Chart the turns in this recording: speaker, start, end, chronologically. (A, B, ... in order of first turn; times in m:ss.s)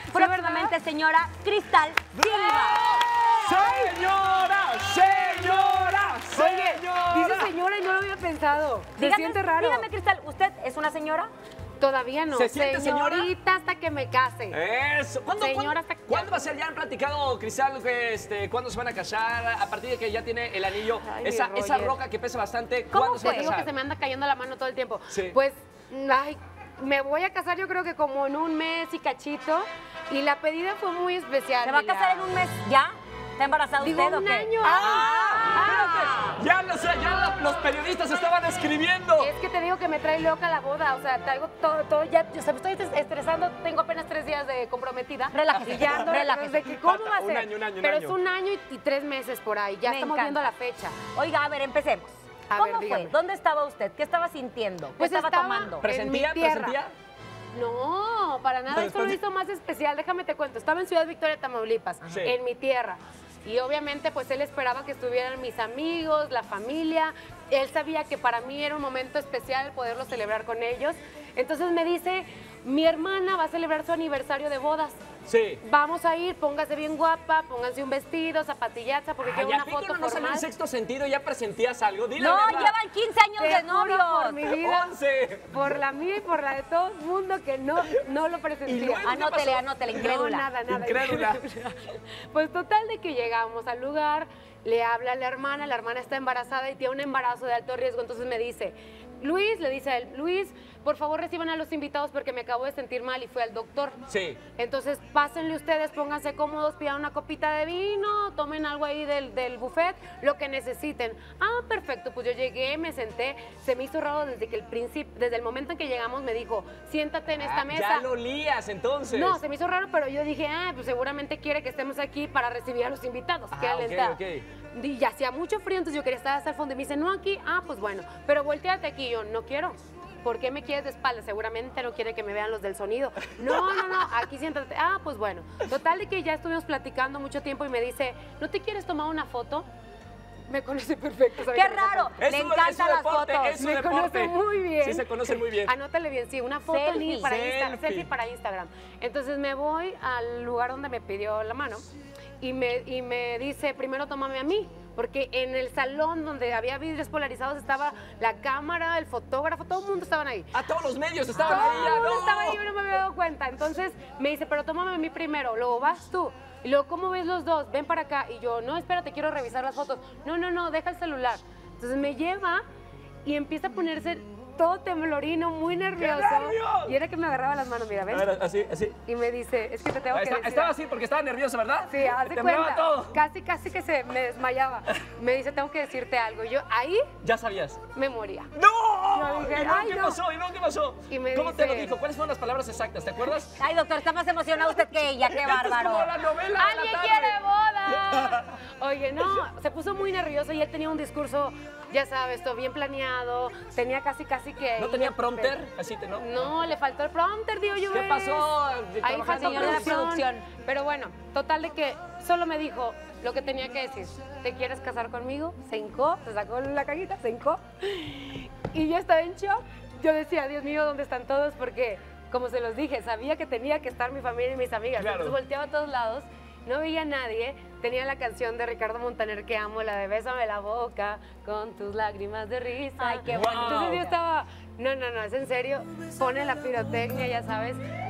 0:00.1-0:03.0 A
0:00.1-0:00.8 B
0:02.2-0:07.5 C
0:03.4-0:03.9 B
0:05.2-0:09.9 B
0:09.0-0:11.3 A
0:11.8-0:14.6 B
0:12.3-0:13.3 C
0:14.5-0:23.7 C
0:15.3-0:16.5 B
0:21.0-0:22.0 B
0:22.9-0:23.6 A
0:23.2-0:32.3 B
0:25.1-0:25.4 C
0:31.6-0:36.4 A
0:33.8-0:36.2 B
0:34.6-0:39.3 C
0:39.2-0:51.0 B
0:45.3-0:46.7 A
0:45.7-0:46.2 C
0:46.8-0:48.2 C
0:49.8-0:50.5 A
0:51.1-0:55.8 A
0:52.5-0:53.1 B
0:55.0-0:56.8 B
0:55.8-0:56.9 C
0:57.5-1:15.0 B
0:58.7-0:59.2 C
1:02.1-1:02.4 C
1:15.3-1:15.6 C
1:15.6-1:20.5 B
1:19.2-1:22.8 C
1:22.2-1:24.4 A
1:22.2-1:22.8 B
1:23.4-1:24.9 B
1:24.5-1:25.6 C
1:25.5-1:29.1 B
1:28.7-1:31.4 C
1:29.0-1:30.5 A
1:29.9-1:44.0 B
1:44.1-1:44.4 C
1:44.6-1:58.1 B
1:57.3-1:59.4 C
1:59.1-2:04.2 B
2:03.5-2:04.5 C
2:04.7-2:19.7 B
2:13.4-2:14.0 C
2:20.5-2:22.2 B
2:21.4-2:23.6 A
2:22.2-2:25.7 C
2:23.6-2:31.8 B
2:26.7-2:27.3 A
2:27.2-2:28.1 C
2:32.4-2:40.5 B
2:40.5-2:42.6 C
2:41.3-2:52.6 B
2:53.2-2:58.3 B
2:56.0-2:57.0 C
2:58.1-2:59.0 C
2:59.1-3:00.8 B
3:00.1-3:03.2 C
3:01.9-3:07.0 B
3:07.2-3:07.8 C
3:07.9-3:08.5 B
3:08.5-3:13.6 C
3:09.1-3:10.2 B
3:11.1-3:12.0 B
3:13.6-3:16.1 A
3:14.7-3:17.4 C
3:16.6-3:25.6 B
3:18.0-3:18.5 C
3:24.8-3:26.5 C
3:26.2-3:57.8 B
3:27.9-3:30.1 C
3:29.2-3:30.5 A
3:45.0-3:45.4 C
3:53.0-3:54.1 A
3:53.3-3:54.0 C